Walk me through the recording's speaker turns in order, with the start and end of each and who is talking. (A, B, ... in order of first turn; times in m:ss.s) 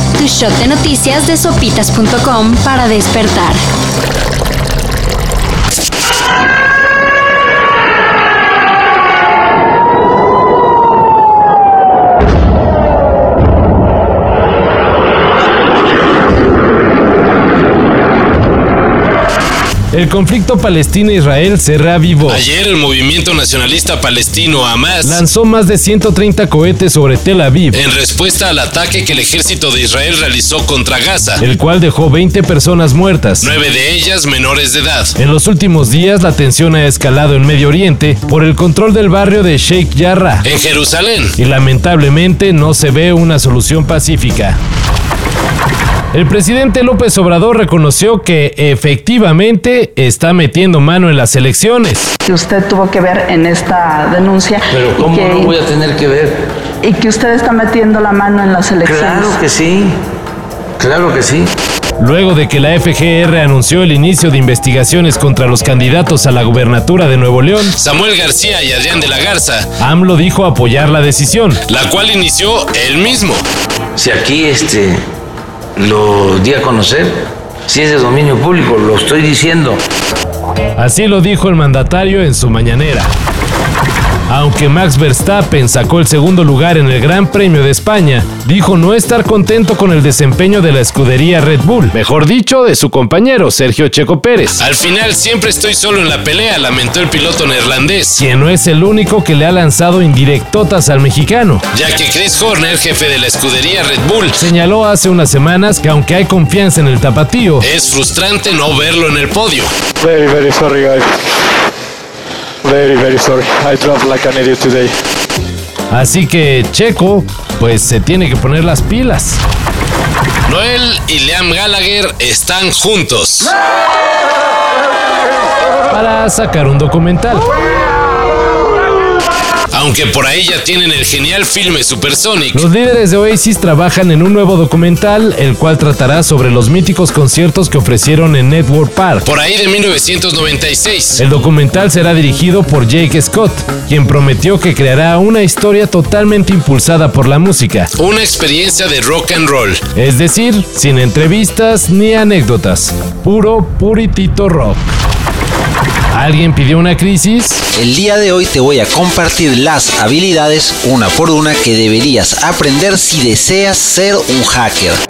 0:00.2-0:03.6 A
0:19.9-0:22.4 B
0:22.3-0:25.2 C
0:25.0-0:27.8 B
0:27.7-0:31.4 C
0:31.4-0:33.5 B
0:33.4-0:35.2 C
0:35.2-0:40.5 B
0:40.4-0:41.4 C
0:41.4-0:44.6 B
0:46.1-0:52.1 B
0:52.3-0:55.5 D
0:54.7-0:56.4 E
0:56.8-0:59.4 D
0:58.8-1:00.0 E
1:00.8-1:01.5 E
1:02.0-1:07.8 B
1:07.7-1:09.8 C
1:09.8-1:11.6 B
1:11.6-1:13.5 C
1:14.0-1:15.0 E
1:15.8-1:19.8 E
1:20.8-1:23.1 B
1:24.3-1:34.6 B
1:34.6-1:38.2 C
1:38.2-1:41.7 B
1:41.7-1:44.4 C
1:44.4-1:47.7 B
1:47.6-1:49.7 C
1:50.0-1:51.1 F
1:52.6-1:54.9 F
1:55.9-1:59.4 B
2:00.5-2:03.5 C
2:05.9-2:07.5 B
2:09.7-2:12.6 C
2:12.5-2:19.3 B
2:19.2-2:21.2 C
2:21.2-2:27.9 B
2:27.9-2:29.8 C
2:30.0-2:35.0 B
2:36.1-2:37.6 B
2:37.7-2:45.0 G